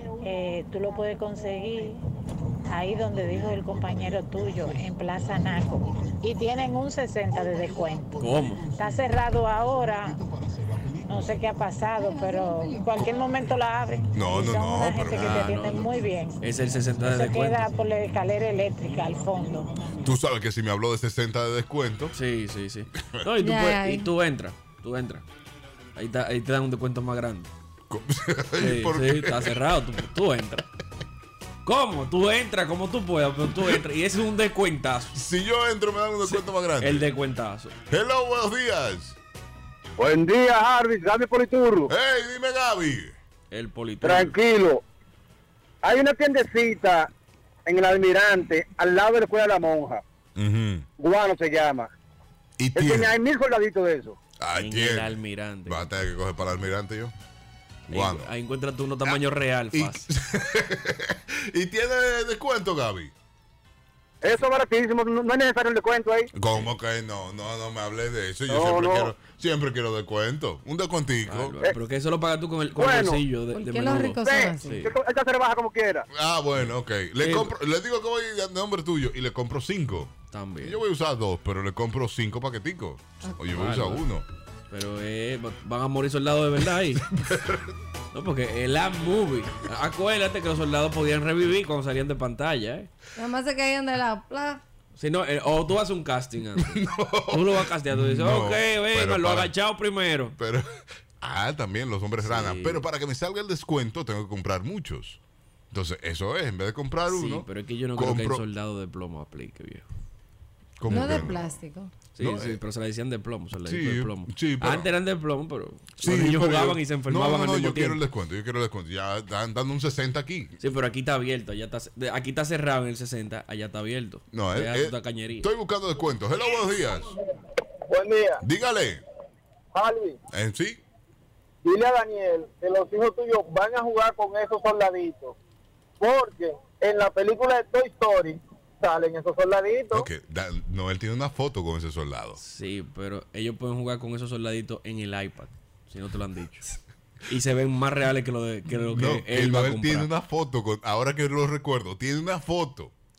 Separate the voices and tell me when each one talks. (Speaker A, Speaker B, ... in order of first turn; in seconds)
Speaker A: 0.1-2.0, 2.7-8.2, 8.7-10.2, 11.1-16.4, 17.0-19.9
Speaker B: 3.3-4.8, 5.3-6.2, 7.6-9.0, 9.6-11.3, 14.1-15.3, 20.0-22.1, 27.9-29.6, 33.5-33.8, 35.1-37.1, 37.9-39.2, 41.9-43.1, 50.4-50.9, 52.6-53.1, 54.4-57.1, 57.9-58.3, 59.7-63.1, 66.3-71.5, 76.1-84.2, 86.9-87.7, 96.6-99.5, 100.3-100.7, 101.2-105.2, 105.7-108.4, 110.8-111.5, 112.2-112.6, 113.6-114.9, 116.0-120.5, 124.3-127.1, 128.4-129.0, 130.3-130.8, 139.9-142.4, 148.9-152.9
Speaker C: 8.2-8.7, 15.1-17.8, 22.1-25.2, 25.9-27.5, 28.6-30.6, 31.6-35.2, 36.2-37.7, 43.5-44.4, 54.5-55.9, 57.9-60.1, 71.3-74.9, 76.5-77.5, 80.3-80.8, 83.5-84.0, 84.7-87.0, 88.1-92.9, 95.0-100.3, 102.2-102.9, 107.1-109.8, 110.9-111.2, 112.1-118.0, 120.6-125.5, 142.4-146.8, 147.3-150.1
Speaker D: 12.1-12.9, 23.4-24.1, 73.5-74.9, 93.2-94.6, 110.9-111.9
Speaker E: 40.0-41.9, 44.0-44.8, 45.8-47.1, 47.6-50.0, 51.0-51.9, 52.7-54.2, 64.2-66.3, 68.5-69.1, 72.8-73.2, 74.2-76.0, 127.9-128.4, 129.7-130.2, 131.6-135.3, 136.0-140.1